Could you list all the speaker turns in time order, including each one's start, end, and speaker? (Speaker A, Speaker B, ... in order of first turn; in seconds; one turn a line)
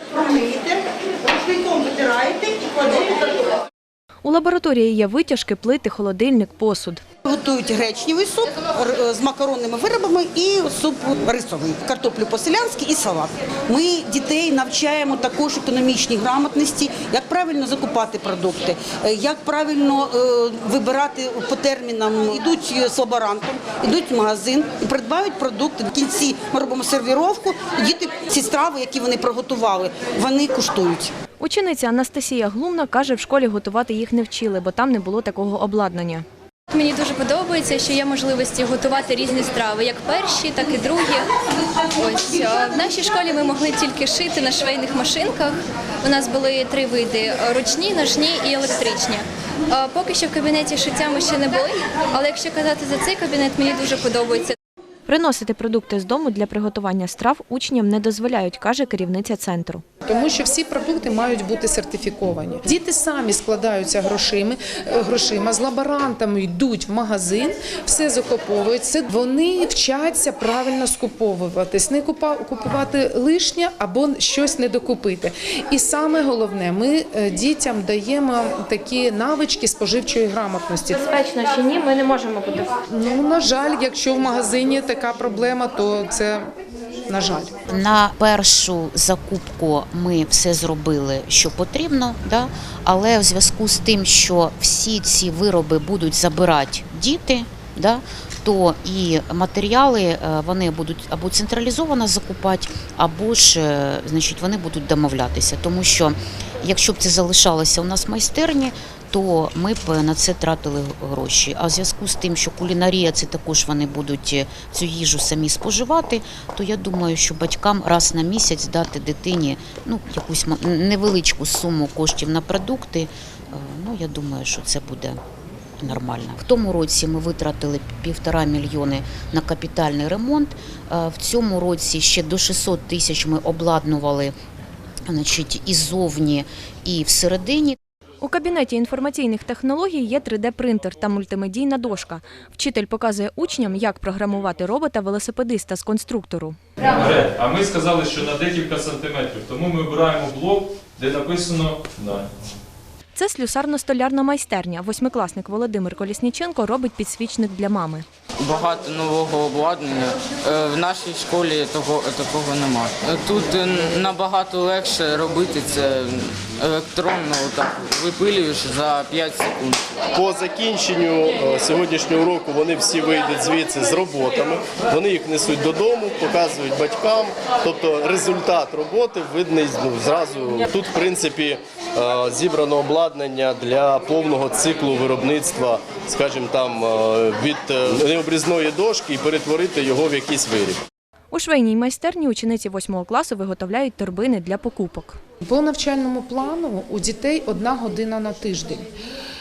Speaker A: 0.1-3.5
Speaker B: 4.2-7.0
Speaker A: 7.2-31.1
Speaker B: 31.4-36.2
Speaker C: 36.7-41.3
Speaker C: 41.9-54.5
Speaker B: 55.0-59.8
Speaker D: 60.0-81.0
Speaker B: 80.9-82.7
Speaker D: 82.9-86.5
Speaker D: 87.1-87.5
Speaker E: 87.7-125.2
Speaker E: 125.8-134.3
Speaker E: 135.1-137.8
Speaker B: 138.2-146.6
Speaker F: 146.9-152.3
Speaker B: 153.1-158.0
Speaker G: 158.4-169.9
Speaker H: 170.1-190.8
Speaker B: 191.3-195.2
Speaker D: 195.4-198.9